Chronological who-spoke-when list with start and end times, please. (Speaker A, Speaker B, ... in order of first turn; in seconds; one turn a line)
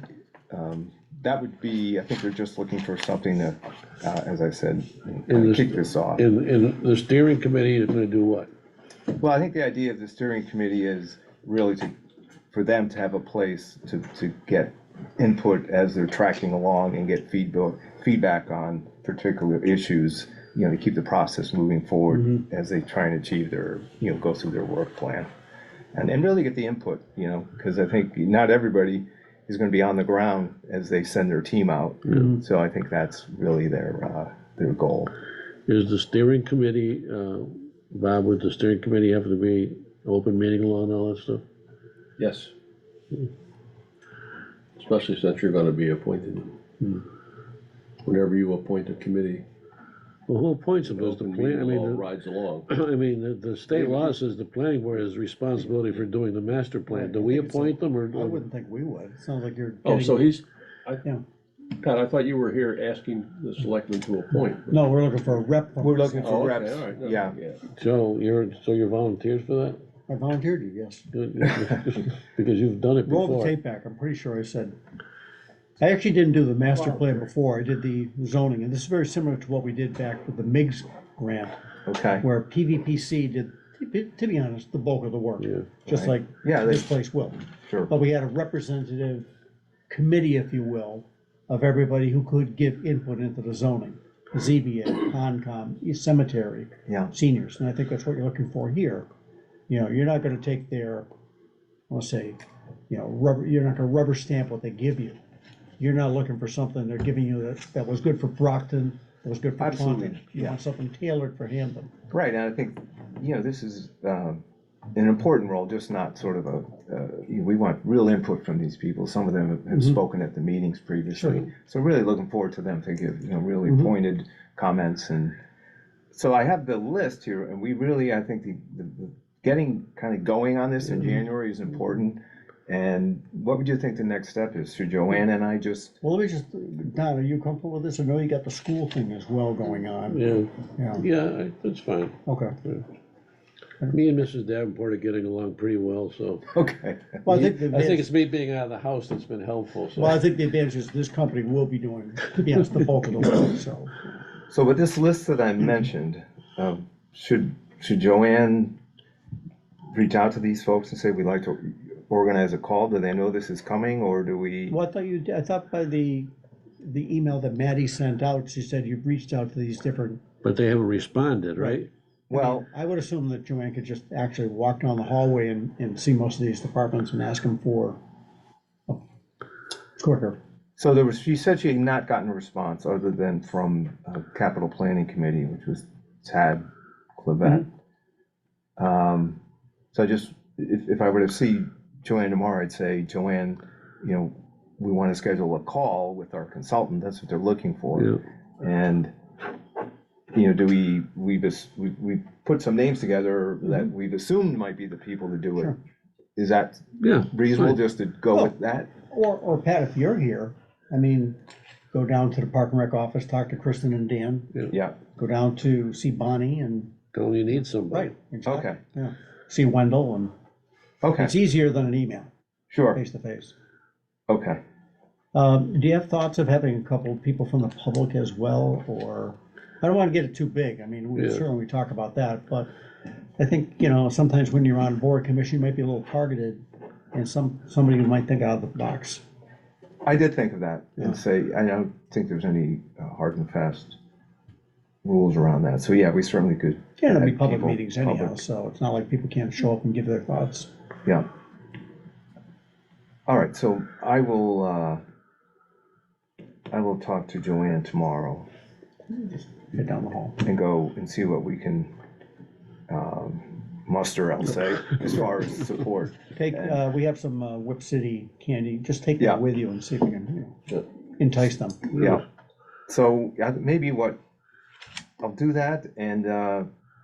Speaker A: 0.5-6.2
Speaker B: 5.3-8.5
Speaker A: 9.2-11.9
Speaker A: 12.5-25.3
Speaker A: 25.9-35.1
Speaker B: 35.7-41.4
Speaker C: 42.2-42.5
Speaker C: 44.8-47.0
Speaker C: 48.0-49.4
Speaker B: 50.3-52.1
Speaker C: 50.8-52.7
Speaker B: 52.7-58.4
Speaker C: 53.7-54.2
Speaker D: 56.9-60.3
Speaker C: 59.8-61.0
Speaker C: 61.8-64.8
Speaker D: 64.7-66.5
Speaker A: 65.8-67.3
Speaker C: 66.2-67.6
Speaker B: 67.7-69.8
Speaker D: 70.1-71.0
Speaker B: 71.1-73.5
Speaker D: 73.0-74.7
Speaker D: 75.8-81.6
Speaker A: 81.8-82.2
Speaker D: 82.2-89.2
Speaker A: 85.9-86.9
Speaker D: 89.9-99.0
Speaker A: 96.9-97.1
Speaker D: 99.7-101.1
Speaker D: 101.9-102.4
Speaker D: 102.9-105.2
Speaker D: 105.8-111.9
Speaker A: 109.6-110.6
Speaker A: 112.1-114.4
Speaker A: 114.9-125.4
Speaker D: 119.7-120.0
Speaker D: 121.1-121.5
Speaker D: 123.7-123.9
Speaker A: 126.1-135.9
Speaker D: 136.0-141.1
Speaker B: 140.1-142.8
Speaker D: 142.2-142.5
Speaker B: 143.9-146.5
Speaker A: 146.5-147.3
Speaker D: 147.2-148.1
Speaker B: 147.2-150.2
Speaker D: 150.0-154.1
Speaker A: 154.5-158.8
Speaker A: 159.9-164.8
Speaker D: 164.7-166.3
Speaker D: 166.8-170.2
Speaker B: 170.4-171.9
Speaker D: 171.6-171.8
Speaker A: 172.3-172.7
Speaker D: 172.3-178.0
Speaker D: 180.0-180.4
Speaker A: 180.8-186.6
Speaker A: 187.2-187.7
Speaker A: 188.8-189.4
Speaker A: 189.9-199.1
Speaker A: 200.3-205.7
Speaker A: 206.3-208.9
Speaker B: 207.0-207.8
Speaker D: 209.1-211.3
Speaker D: 211.9-214.5
Speaker A: 214.7-215.0
Speaker D: 215.1-216.9
Speaker B: 217.1-218.1
Speaker D: 217.9-220.3
Speaker A: 218.4-218.8
Speaker A: 221.0-221.3
Speaker D: 221.2-222.3
Speaker A: 222.7-223.0
Speaker D: 222.9-223.5
Speaker A: 224.3-224.6
Speaker D: 225.3-232.7
Speaker B: 231.2-231.4
Speaker D: 233.4-239.2
Speaker A: 240.0-244.0
Speaker A: 245.0-248.4
Speaker D: 247.0-250.7
Speaker A: 253.3-255.0
Speaker A: 256.7-258.5
Speaker D: 259.7-260.4
Speaker A: 260.4-261.9
Speaker A: 262.9-266.8
Speaker D: 266.3-270.6
Speaker D: 271.2-271.9
Speaker A: 271.9-272.2
Speaker A: 272.9-274.2
Speaker A: 275.2-276.7